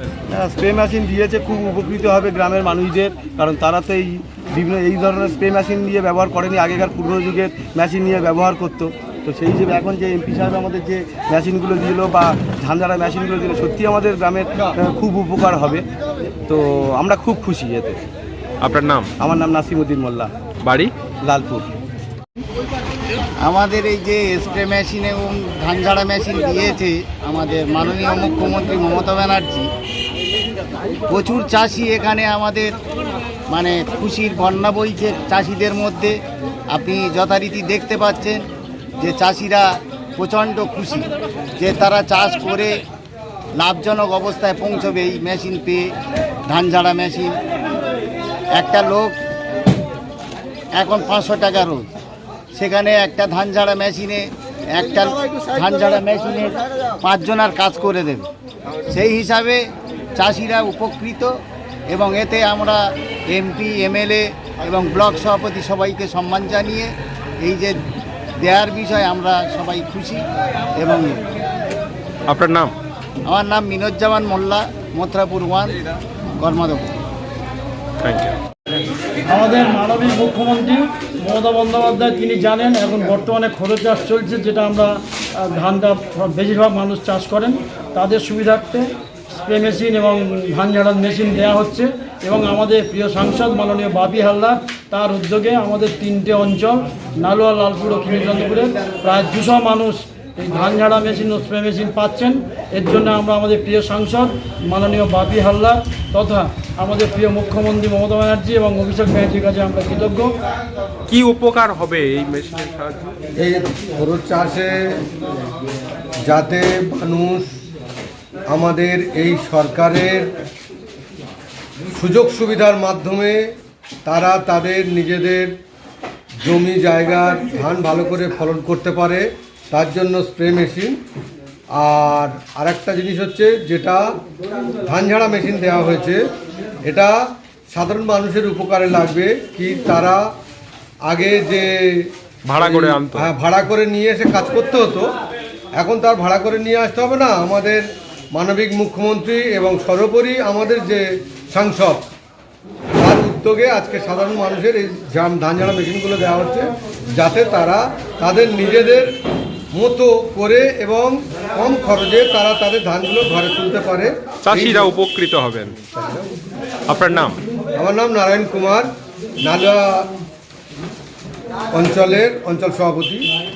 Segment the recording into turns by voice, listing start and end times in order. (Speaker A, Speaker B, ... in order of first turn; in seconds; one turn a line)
Speaker A: 0.3-15.9
Speaker A: 16.5-18.0
Speaker B: 18.6-19.1
Speaker A: 19.2-20.3
Speaker B: 20.6-20.9
Speaker A: 21.2-21.7
Speaker C: 23.4-29.7
Speaker C: 31.1-32.8
Speaker C: 33.5-36.2
Speaker C: 36.7-38.4
Speaker C: 39.0-41.1
Speaker C: 41.6-42.8
Speaker C: 43.6-45.9
Speaker C: 46.5-47.4
Speaker C: 48.5-49.2
Speaker C: 50.8-51.9
Speaker C: 52.5-58.3
Speaker C: 58.9-59.6
Speaker C: 60.2-61.3
Speaker C: 61.9-67.8
Speaker C: 68.4-70.2
Speaker C: 70.8-71.2
Speaker B: 72.3-72.7
Speaker C: 73.3-75.8
Speaker C: 76.4-77.0
Speaker B: 78.0-78.4
Speaker D: 79.3-110.3
Speaker B: 111.1-113.1
Speaker E: 113.4-114.7
Speaker E: 116.3-117.5
Speaker E: 118.5-120.3
Speaker E: 122.0-123.5
Speaker E: 124.1-125.5
Speaker E: 126.4-131.0
Speaker E: 131.8-134.0
Speaker E: 134.9-136.2
Speaker E: 136.9-137.2
Speaker E: 137.7-140.2
Speaker E: 141.1-145.1
Speaker B: 142.5-143.3
Speaker E: 145.8-152.1
Speaker E: 153.0-159.1
Speaker E: 159.7-164.9
Speaker B: 164.4-165.8
Speaker E: 166.0-166.2
Speaker B: 166.9-167.4
Speaker E: 167.8-168.9
Speaker E: 169.5-170.1
Speaker E: 171.7-173.3